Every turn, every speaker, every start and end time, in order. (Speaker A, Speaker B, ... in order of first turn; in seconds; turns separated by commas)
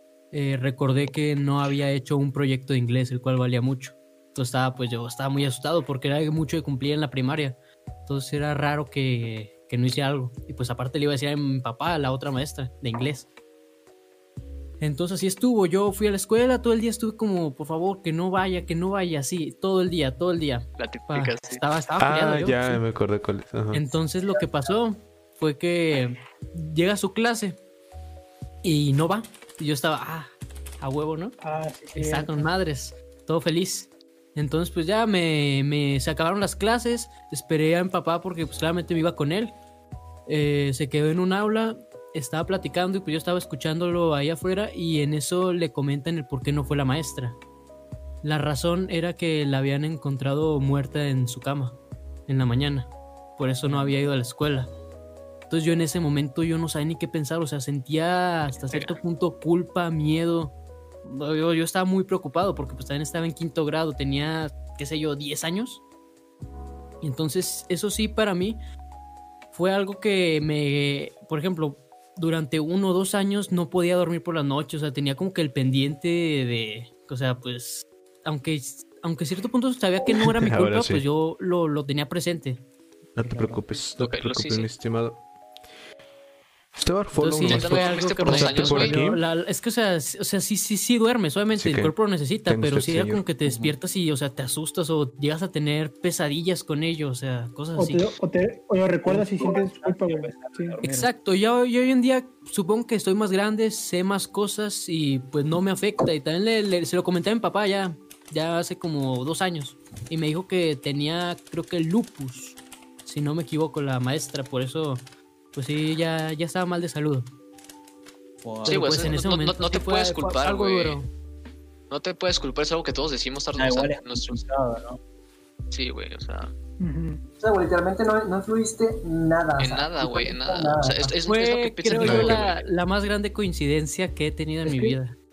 Speaker A: 0.3-13.3, Speaker A: 14.8-22.8, Speaker B: 20.8-21.6, Speaker C: 22.0-23.9, Speaker A: 23.7-27.6, Speaker A: 28.6-31.4, Speaker D: 31.4-32.5, Speaker A: 31.9-39.6, Speaker A: 40.3-47.4, Speaker A: 48.2-54.7, Speaker E: 53.7-54.0, Speaker A: 55.5-65.8, Speaker B: 58.6-59.0, Speaker A: 67.0-68.6, Speaker A: 69.5-82.6, Speaker C: 80.1-81.0, Speaker C: 83.2-85.2, Speaker E: 83.2-83.7, Speaker B: 84.0-84.7, Speaker C: 86.8-89.2, Speaker A: 87.2-98.2, Speaker B: 87.4-89.0, Speaker C: 91.5-92.0, Speaker C: 92.5-93.2, Speaker D: 97.8-100.8, Speaker E: 99.0-101.1, Speaker A: 100.8-117.3, Speaker E: 118.4-119.2, Speaker A: 118.6-121.1, Speaker B: 118.7-121.0, Speaker B: 121.9-124.4, Speaker E: 123.6-125.0, Speaker B: 125.7-126.5, Speaker D: 126.8-127.2, Speaker F: 127.4-131.2, Speaker B: 129.6-132.7, Speaker A: 131.2-135.2, Speaker D: 134.6-135.0